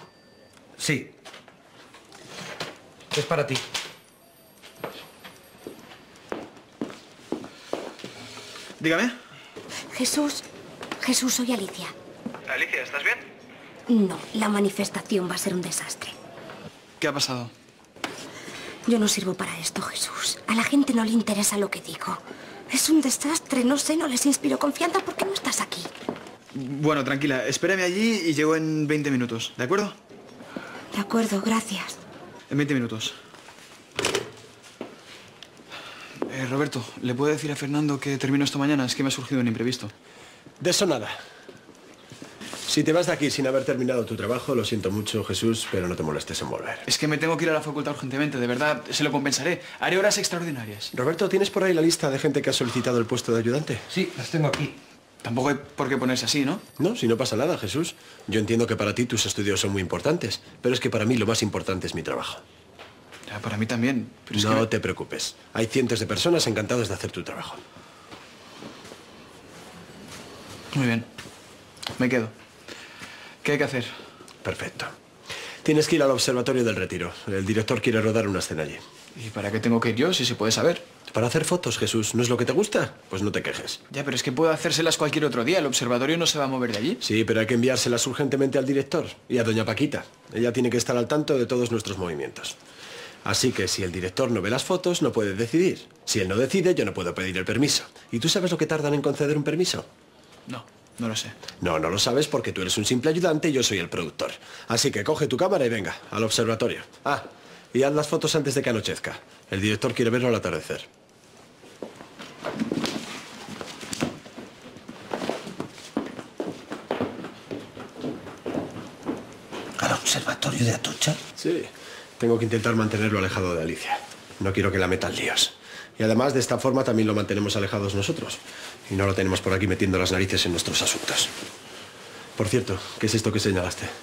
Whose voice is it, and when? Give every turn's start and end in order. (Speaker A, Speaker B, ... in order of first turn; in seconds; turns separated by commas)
Speaker A: 0.8-1.1, Speaker A: 3.1-3.6, Speaker B: 8.8-9.2, Speaker C: 9.9-10.4, Speaker C: 11.0-11.9, Speaker B: 12.5-13.3, Speaker C: 13.9-16.1, Speaker B: 17.0-17.5, Speaker C: 18.9-25.9, Speaker B: 26.5-29.9, Speaker C: 30.9-32.0, Speaker B: 32.5-33.2, Speaker B: 36.3-39.9, Speaker D: 40.6-41.2, Speaker D: 42.7-46.9, Speaker B: 46.9-50.9, Speaker D: 50.9-53.9, Speaker A: 54.0-54.7, Speaker B: 55.2-56.6, Speaker D: 56.8-62.4, Speaker B: 63.3-64.7, Speaker D: 64.3-67.6, Speaker B: 70.7-71.1, Speaker B: 72.0-72.3, Speaker B: 73.4-73.9, Speaker D: 74.4-74.9, Speaker D: 75.6-78.8, Speaker B: 79.1-80.8, Speaker D: 81.1-83.8, Speaker B: 83.9-87.0, Speaker D: 87.0-92.6, Speaker D: 93.2-99.9, Speaker B: 100.5-101.3, Speaker D: 101.6-110.9, Speaker A: 119.8-121.2, Speaker D: 121.4-131.3, Speaker D: 132.4-133.9